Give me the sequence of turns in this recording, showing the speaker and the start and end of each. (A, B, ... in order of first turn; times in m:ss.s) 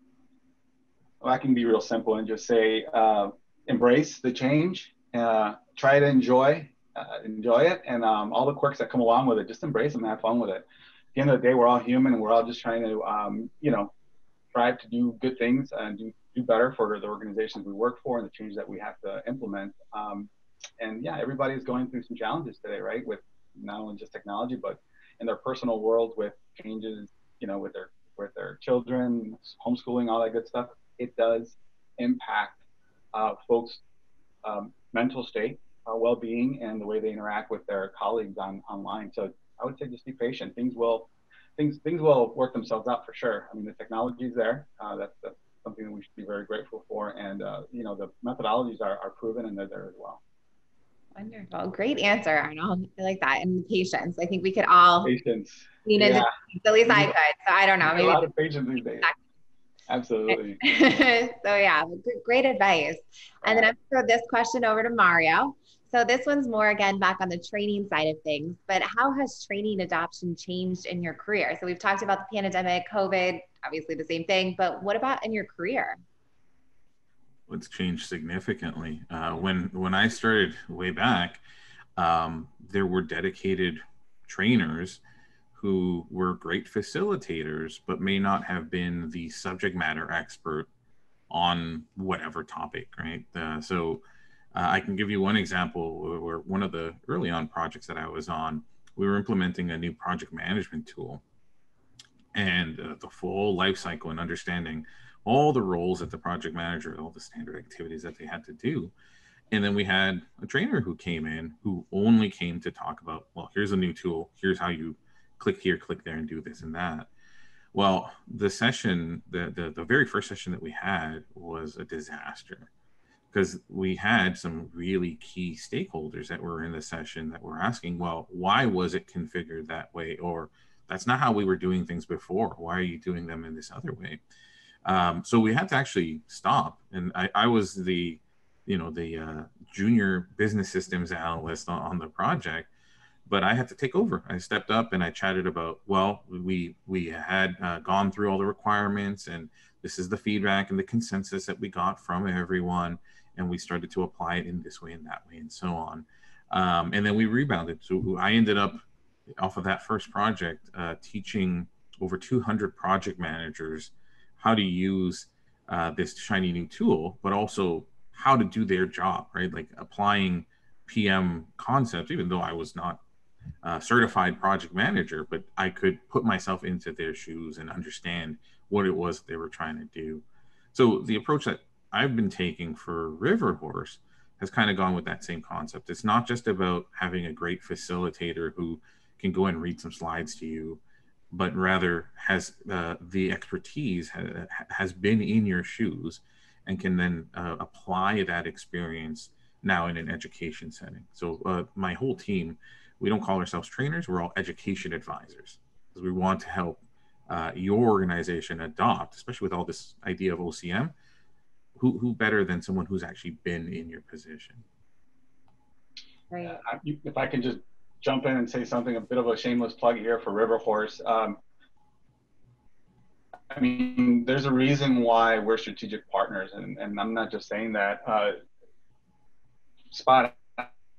0:01.2-0:13.9 A
0:14.5-0:32.6 A
0:33.1-0:33.8 A
0:34.4-0:50.2 A
0:51.1-0:55.1 B
0:55.0-0:56.3 A
0:55.8-0:58.2 B
0:56.8-0:57.1 A
0:57.8-0:59.1 A
0:59.9-1:00.6 A
1:00.3-1:16.0 B
1:03.4-1:03.7 A
1:17.5-1:21.4 C
1:22.0-1:25.0 C
1:25.5-1:30.7 C
1:31.3-1:34.0 C
1:34.5-1:41.2 C
1:42.3-1:48.9 C
1:49.5-1:57.1 C
1:57.7-2:02.7 C
2:03.3-2:14.2 C
2:14.8-2:22.7 C
2:23.2-2:38.8 C
2:39.4-2:53.0 C
2:53.6-3:30.9 C
3:31.8-3:34.6 C
3:36.3-3:36.6 B
3:36.4-3:41.4 A
3:43.5-3:48.3 A
3:49.9-3:50.7 A